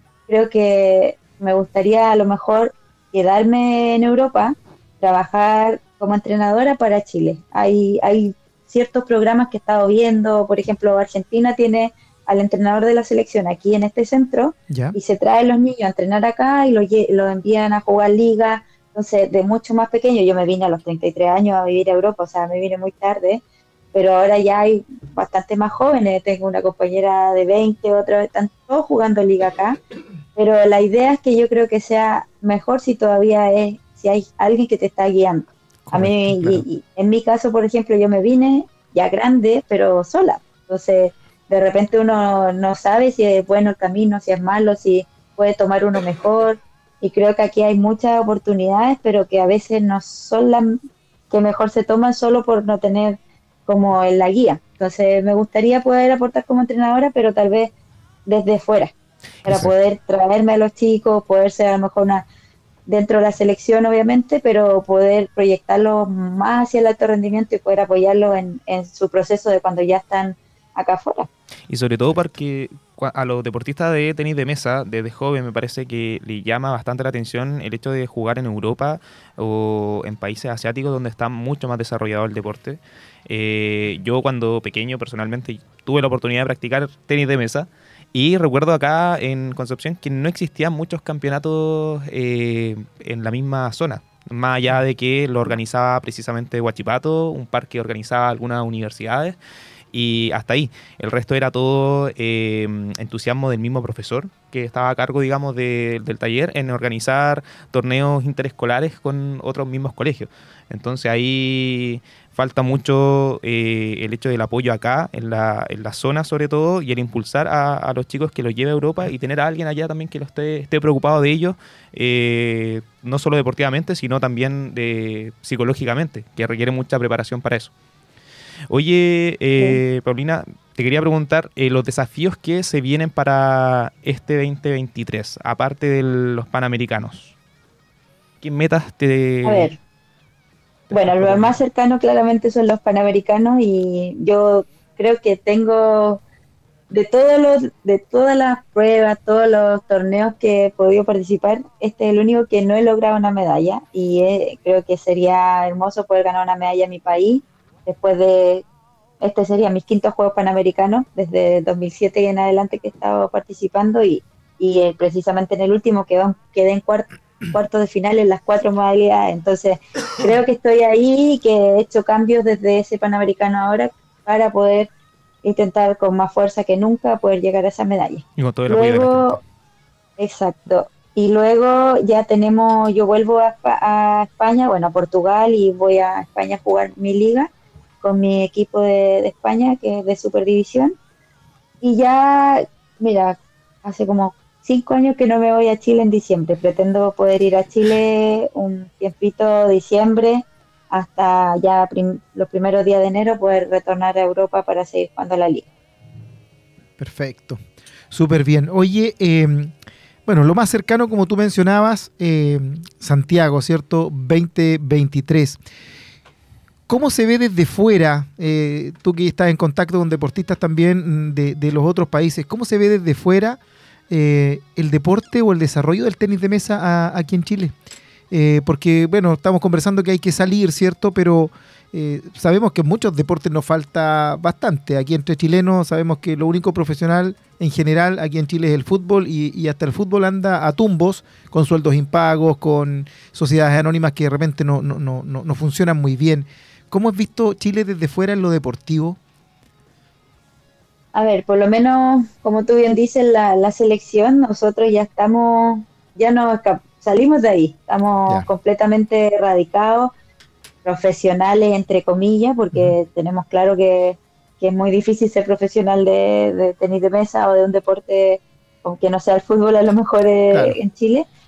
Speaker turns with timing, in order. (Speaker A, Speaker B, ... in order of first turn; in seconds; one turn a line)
Speaker A: 0.3-23.4
Speaker B: 14.7-14.9
Speaker A: 23.9-29.8
Speaker A: 30.4-50.8
Speaker B: 35.9-36.6
Speaker A: 51.3-57.7
Speaker A: 58.2-58.9
Speaker A: 59.5-62.2
Speaker A: 62.9-71.3
Speaker C: 71.7-99.4
Speaker C: 99.9-127.7
Speaker C: 128.7-137.3
Speaker C: 138.4-139.7
Speaker A: 139.4-139.8
Speaker C: 140.9-141.6
Speaker A: 140.9-146.2
Speaker A: 146.9-158.6
Speaker A: 159.2-174.9
Speaker A: 175.4-179.4
Speaker C: 178.4-179.4
Speaker A: 180.2-187.5
Speaker A: 188.0-190.9
Speaker A: 191.8-205.7
Speaker B: 207.0-207.6
Speaker B: 208.1-209.7
Speaker B: 210.2-215.6
Speaker B: 216.9-223.6
Speaker B: 224.1-227.7
Speaker B: 228.3-249.2
Speaker A: 251.1-260.1
Speaker A: 260.8-271.2
Speaker B: 270.5-270.8